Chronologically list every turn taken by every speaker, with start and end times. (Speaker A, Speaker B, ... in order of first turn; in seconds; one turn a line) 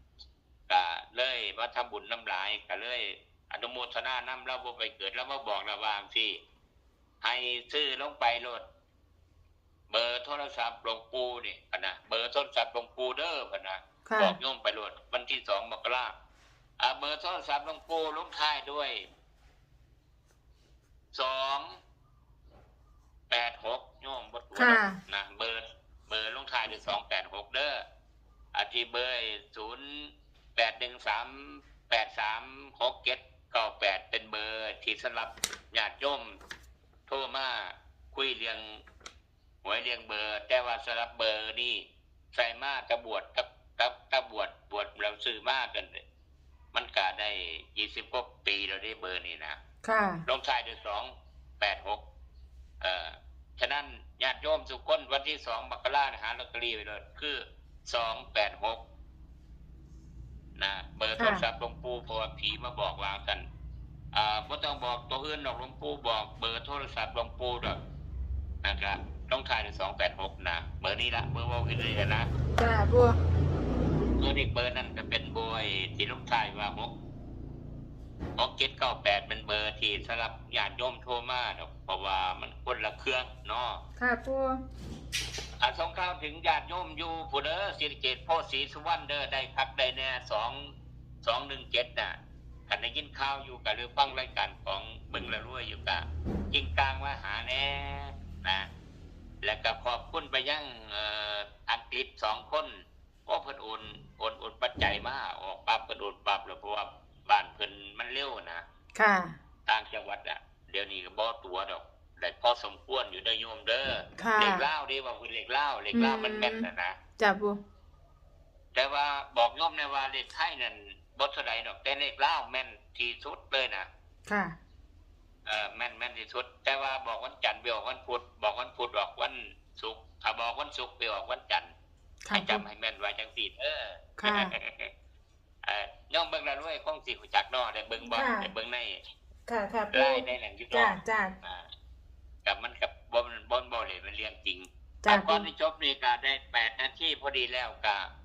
Speaker A: 0.7-6.4
Speaker A: 7.2-8.6
Speaker A: 9.9-16.1
Speaker B: 14.1-14.3
Speaker A: 16.8-19.0
Speaker A: 21.1-21.7
Speaker A: 23.3-27.8
Speaker B: 24.5-25.0
Speaker A: 28.5-36.4
Speaker A: 37.1-38.8
Speaker A: 39.6-46.0
Speaker A: 46.7-49.6
Speaker B: 49.8-50.2
Speaker A: 50.2-52.0
Speaker A: 52.8-58.8
Speaker A: 60.6-63.4
Speaker B: 61.2-61.4
Speaker A: 64.1-67.8
Speaker A: 68.6-72.3
Speaker B: 72.6-73.2
Speaker A: 74.2-76.9
Speaker A: 78.4-83.8
Speaker B: 84.0-84.6
Speaker A: 85.6-90.6
Speaker A: 91.2-92.2
Speaker A: 92.7-98.7
Speaker A: 99.4-102.7
Speaker A: 103.3-108.6
Speaker B: 108.9-109.3
Speaker A: 109.7-117.0
Speaker B: 114.2-114.6
Speaker B: 115.9-117.6
Speaker A: 118.7-123.9
Speaker B: 124.3-124.5
Speaker A: 125.5-131.7
Speaker B: 132.2-132.6
Speaker A: 132.3-134.9
Speaker B: 134.2-134.5
Speaker A: 135.6-139.0
Speaker B: 138.0-138.5
Speaker B: 139.5-141.3
Speaker A: 139.9-141.7
Speaker A: 142.4-148.1
Speaker B: 145.0-145.5